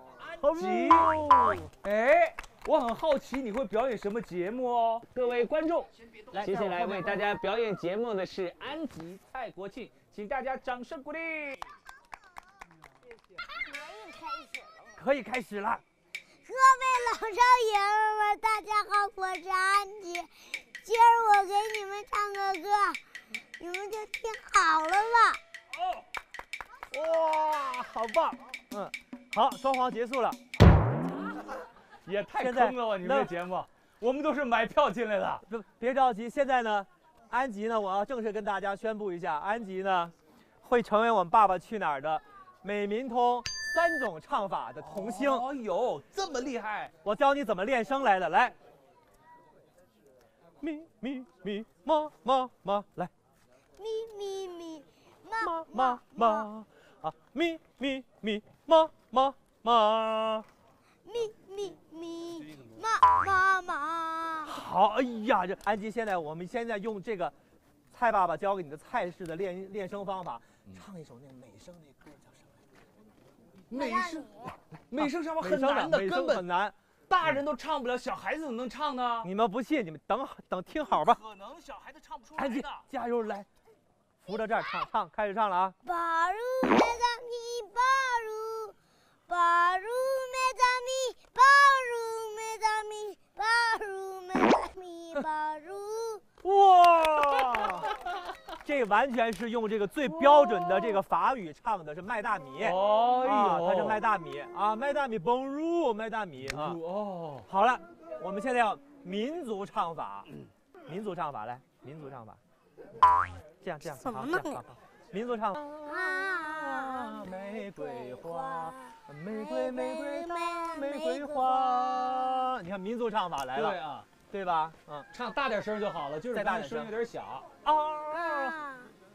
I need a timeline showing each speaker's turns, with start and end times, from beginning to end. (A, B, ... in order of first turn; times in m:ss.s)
0:00.2-0:01.7 A
0:00.5-0:01.1 B
0:01.8-0:11.6 B
0:06.3-0:07.2 A
0:13.6-0:14.9 C
0:15.0-0:15.8 A
0:16.5-0:23.0 C
0:23.6-0:25.4 C
0:26.9-0:30.4 A
0:32.0-0:35.4 B
0:32.4-0:33.3 A
0:35.5-0:45.5 A
0:44.8-0:46.9 B
0:47.0-0:48.6 A
0:50.6-0:53.1 A
0:53.8-0:56.5 C
0:55.4-1:00.5 A
1:01.0-1:04.6 C
1:04.4-1:07.3 A
1:07.9-1:12.6 A
1:13.7-1:14.3 B
1:13.7-1:14.6 C
1:14.9-1:16.4 B
1:15.0-1:16.8 A
1:17.1-1:19.3 B
1:19.2-1:21.2 A
1:21.2-1:22.8 B
1:22.4-1:23.5 A
1:24.2-1:25.8 A
1:25.8-1:28.8 C
1:29.3-1:36.2 C
1:36.4-1:37.9 A
1:38.6-1:46.8 A
1:42.6-1:44.0 B
1:46.5-1:47.4 B
1:47.5-1:50.3 A
1:50.9-1:52.4 A
1:53.6-2:03.8 A
1:54.0-1:54.6 C
1:55.8-2:02.5 C
2:03.6-2:04.1 B
2:04.3-2:05.1 A
2:05.1-2:07.5 B
2:06.3-2:06.9 A
2:07.6-2:08.6 A
2:08.1-2:08.9 C